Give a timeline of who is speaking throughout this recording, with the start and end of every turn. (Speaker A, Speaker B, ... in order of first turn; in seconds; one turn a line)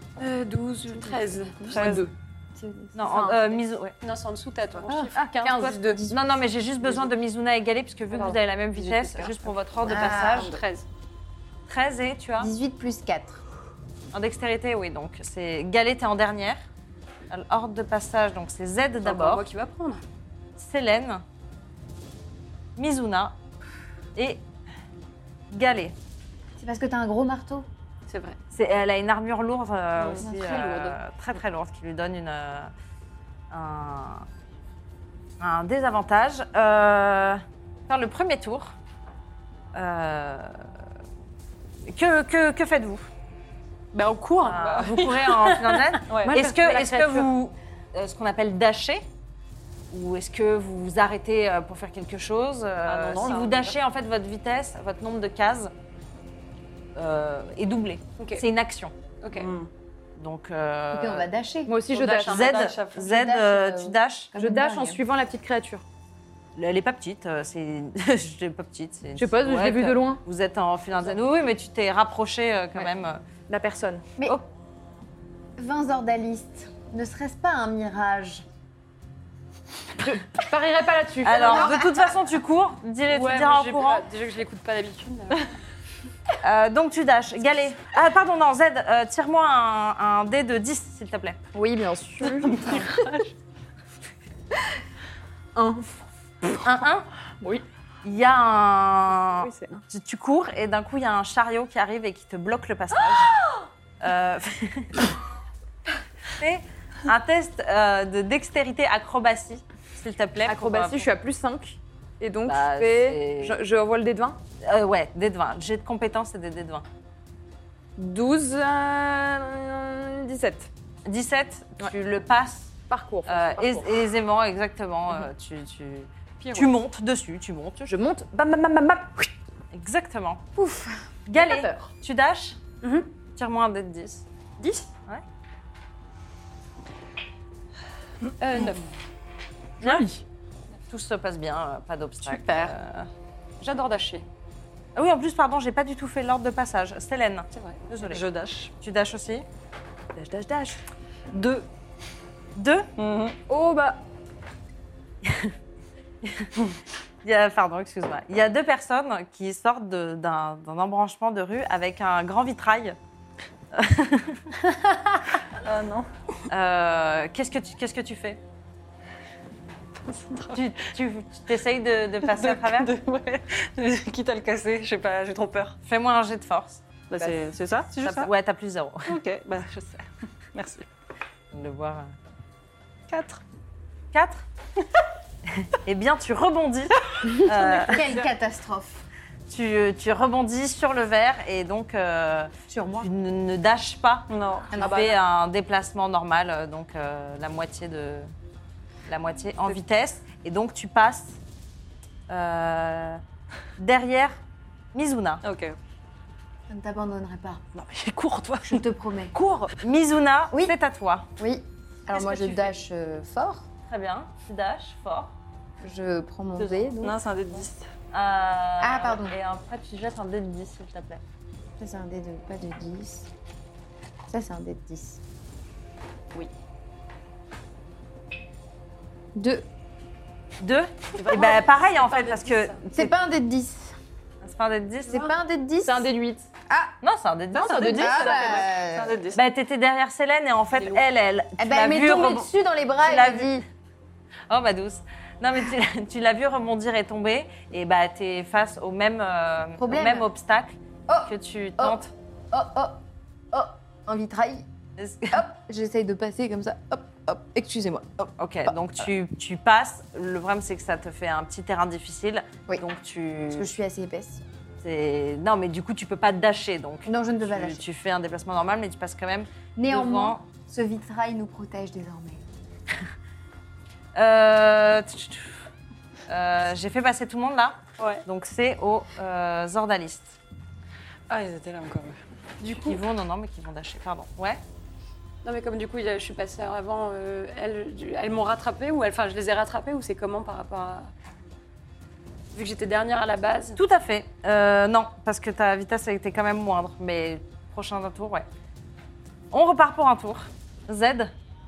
Speaker A: 0.2-3.4
Speaker B: 0.9-1.8
Speaker C: 1.7-2.0
Speaker D: 1.8-2.0
Speaker D: 3.0-4.0
Speaker B: 4.0-5.2
Speaker A: 5.1-6.1
Speaker D: 5.5-10.6
Speaker E: 5.7-6.1
Speaker B: 8.1-10.9
Speaker E: 9.8-10.5
Speaker D: 11.7-12.5
Speaker E: 12.4-13.4
Speaker D: 14.1-16.6
Speaker D: 17.3-19.5
Speaker B: 19.0-20.0
Speaker D: 20.6-21.2
Speaker D: 22.8-23.4
Speaker D: 24.2-24.4
Speaker D: 25.5-26.0
Speaker E: 26.6-27.7
Speaker B: 28.1-28.4
Speaker D: 28.5-32.7
Speaker B: 30.0-31.0
Speaker E: 30.3-30.6
Speaker D: 33.5-34.3
Speaker D: 35.4-38.8
Speaker D: 39.7-40.7
Speaker D: 41.9-43.1
Speaker B: 43.9-47.1
Speaker D: 44.4-49.0
Speaker C: 46.1-46.4
Speaker A: 46.3-47.2
Speaker D: 49.9-55.7
Speaker C: 52.9-53.8
Speaker D: 57.0-59.0
Speaker B: 58.2-58.5
Speaker B: 59.2-59.5
Speaker C: 59.3-59.7
Speaker D: 60.2-61.3
Speaker E: 60.9-61.8
Speaker A: 61.7-62.5
Speaker B: 61.9-62.8
Speaker D: 62.2-64.3
Speaker C: 62.3-63.0
Speaker E: 63.0-65.0
Speaker A: 64.3-65.8
Speaker D: 66.6-73.2
Speaker A: 69.2-70.2
Speaker A: 73.5-74.2
Speaker E: 75.6-78.5
Speaker A: 80.0-81.8
Speaker D: 81.2-84.1
Speaker E: 81.4-82.0
Speaker B: 83.1-85.6
Speaker D: 86.4-91.4
Speaker A: 91.5-93.2
Speaker C: 92.5-93.2
Speaker A: 95.5-96.6
Speaker D: 96.6-97.1
Speaker D: 98.0-103.3
Speaker A: 99.3-99.8
Speaker D: 104.0-105.1
Speaker D: 106.4-111.1
Speaker A: 110.4-114.4
Speaker D: 112.5-113.6
Speaker D: 114.6-116.9
Speaker A: 118.0-120.7
Speaker D: 121.0-122.7
Speaker A: 122.9-124.0
Speaker D: 123.3-127.9
Speaker B: 126.4-126.8
Speaker A: 127.9-129.3
Speaker D: 129.7-130.5
Speaker A: 130.6-131.9
Speaker D: 131.3-132.6
Speaker B: 132.8-133.1
Speaker D: 133.4-134.3
Speaker B: 134.6-134.9
Speaker B: 138.4-138.9
Speaker D: 139.8-140.1
Speaker A: 139.8-140.2
Speaker D: 140.9-143.1
Speaker B: 142.2-142.8
Speaker B: 143.6-144.2
Speaker D: 145.0-149.5
Speaker B: 147.5-147.8
Speaker C: 148.1-148.7
Speaker A: 150.2-150.8
Speaker C: 151.3-151.7
Speaker D: 152.6-152.9
Speaker C: 153.0-153.4
Speaker A: 153.5-154.0
Speaker D: 155.2-155.6
Speaker D: 156.2-156.5
Speaker D: 157.2-163.0
Speaker D: 163.7-164.4
Speaker C: 165.5-166.1
Speaker D: 166.5-168.4
Speaker C: 170.1-170.6
Speaker D: 170.5-173.0
Speaker C: 172.2-175.8
Speaker D: 175.8-176.8
Speaker C: 177.1-178.3
Speaker D: 178.0-179.2
Speaker C: 179.1-180.9
Speaker D: 181.5-182.1
Speaker C: 183.1-183.4
Speaker D: 184.1-184.5
Speaker D: 185.5-188.1
Speaker E: 187.4-189.1
Speaker D: 189.5-198.3
Speaker E: 192.7-193.1
Speaker C: 194.3-195.0
Speaker E: 194.7-195.1
Speaker D: 199.1-201.4
Speaker D: 202.3-203.2
Speaker D: 203.8-204.4
Speaker D: 204.9-205.4
Speaker C: 205.4-205.8
Speaker E: 206.7-207.6
Speaker C: 207.8-208.8
Speaker E: 208.6-209.4
Speaker D: 209.3-211.3
Speaker E: 211.4-213.7
Speaker D: 212.1-212.8
Speaker D: 213.8-215.3
Speaker E: 215.8-217.2
Speaker D: 216.6-217.0
Speaker C: 217.0-217.9
Speaker D: 218.1-221.2
Speaker E: 218.8-219.3
Speaker E: 221.8-223.3
Speaker E: 224.3-225.2
Speaker E: 229.3-229.7
Speaker D: 230.6-233.1
Speaker B: 231.2-232.8
Speaker E: 232.9-234.0
Speaker D: 234.4-235.3
Speaker E: 235.1-236.1
Speaker A: 235.8-236.5
Speaker E: 236.7-237.0
Speaker D: 237.0-238.4
Speaker A: 237.5-238.6
Speaker C: 237.7-239.4
Speaker E: 238.0-239.3
Speaker D: 239.3-242.5
Speaker B: 240.8-241.1
Speaker E: 241.6-243.7
Speaker D: 243.0-243.6
Speaker D: 244.5-252.1
Speaker E: 249.8-250.3
Speaker E: 251.1-252.0
Speaker E: 252.5-254.7
Speaker D: 255.0-255.5
Speaker E: 255.3-258.8
Speaker D: 258.4-263.7
Speaker E: 263.5-264.4
Speaker D: 264.8-270.4
Speaker E: 267.1-267.8
Speaker E: 269.8-272.4
Speaker D: 274.1-275.6
Speaker D: 276.3-280.4
Speaker B: 278.0-278.2
Speaker C: 281.3-282.2
Speaker B: 282.6-283.0
Speaker D: 282.9-284.6
Speaker B: 285.4-291.1
Speaker B: 292.6-293.8
Speaker D: 293.8-298.5
Speaker D: 299.5-301.3